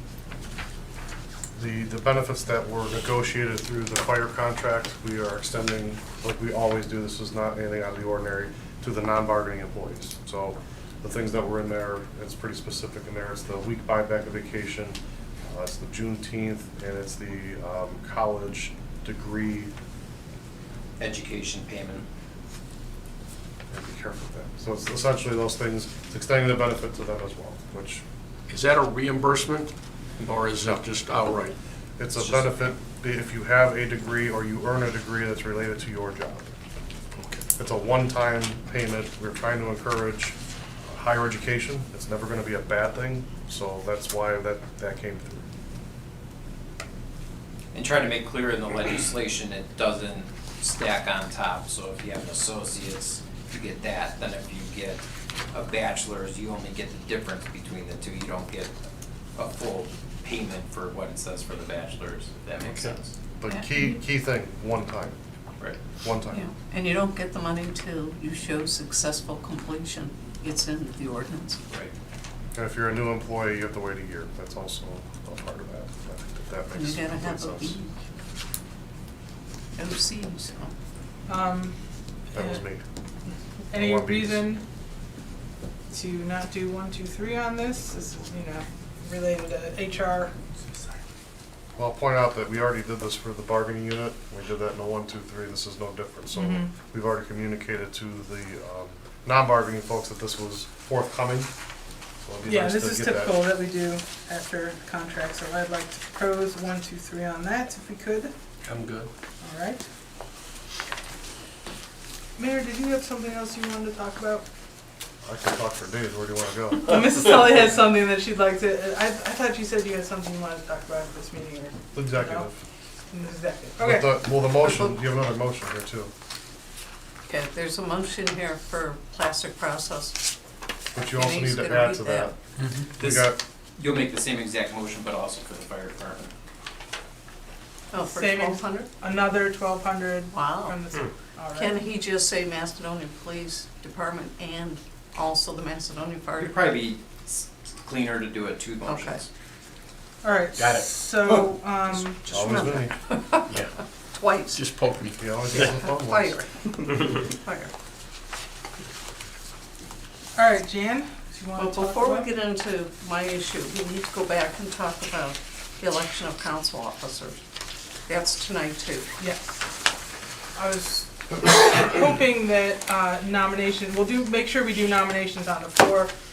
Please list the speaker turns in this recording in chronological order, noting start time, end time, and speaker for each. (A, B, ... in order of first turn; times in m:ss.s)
0:01.6-0:19.7 A
0:21.0-0:22.1 B
0:23.7-0:28.0 A
0:28.5-0:31.6 C
0:30.6-0:30.9 A
0:32.0-0:36.5 A
0:32.2-0:32.7 B
0:37.2-0:37.5 C
0:37.6-0:45.5 A
0:47.7-0:58.8 B
0:59.4-1:03.1 B
1:03.4-1:05.2 A
1:03.5-1:03.9 D
1:06.0-1:06.4 A
1:06.3-1:11.6 D
1:12.5-1:17.8 A
1:16.7-1:17.9 D
1:19.8-1:20.7 D
1:21.3-1:21.8 E
1:22.3-1:22.6 E
1:22.3-1:22.8 A
1:23.7-1:24.6 E
1:23.7-1:24.4 A
1:25.9-1:30.4 E
1:31.8-1:41.5 A
1:36.3-1:36.7 E
1:42.2-1:43.4 A
1:42.4-1:48.3 E
1:48.6-1:49.1 C
1:49.4-1:49.8 E
1:52.4-1:54.4 E
1:55.2-1:57.0 A
1:56.9-2:02.5 E
2:01.9-2:02.6 A
2:03.1-2:04.2 E
2:03.8-2:06.1 A
2:04.6-2:04.9 D
2:07.3-2:10.2 D
2:10.9-2:12.4 A
2:11.0-2:12.3 D
2:12.9-2:13.4 A
2:13.0-2:16.3 B
2:17.9-2:18.9 D
2:18.0-2:21.8 E
2:20.3-2:20.8 D
2:21.5-2:26.8 D
2:26.4-2:29.3 B
2:28.8-2:29.2 D
2:30.2-2:32.2 E
2:30.6-2:30.9 C
2:32.3-2:33.6 D
2:32.3-2:33.0 A
2:34.2-2:34.6 D
2:34.5-2:35.7 C
2:35.2-2:36.4 A
2:35.6-2:37.7 D
2:40.4-2:42.3 E
2:41.6-2:47.4 D
2:48.1-2:49.1 D
2:49.2-2:49.7 E
2:50.6-2:56.1 E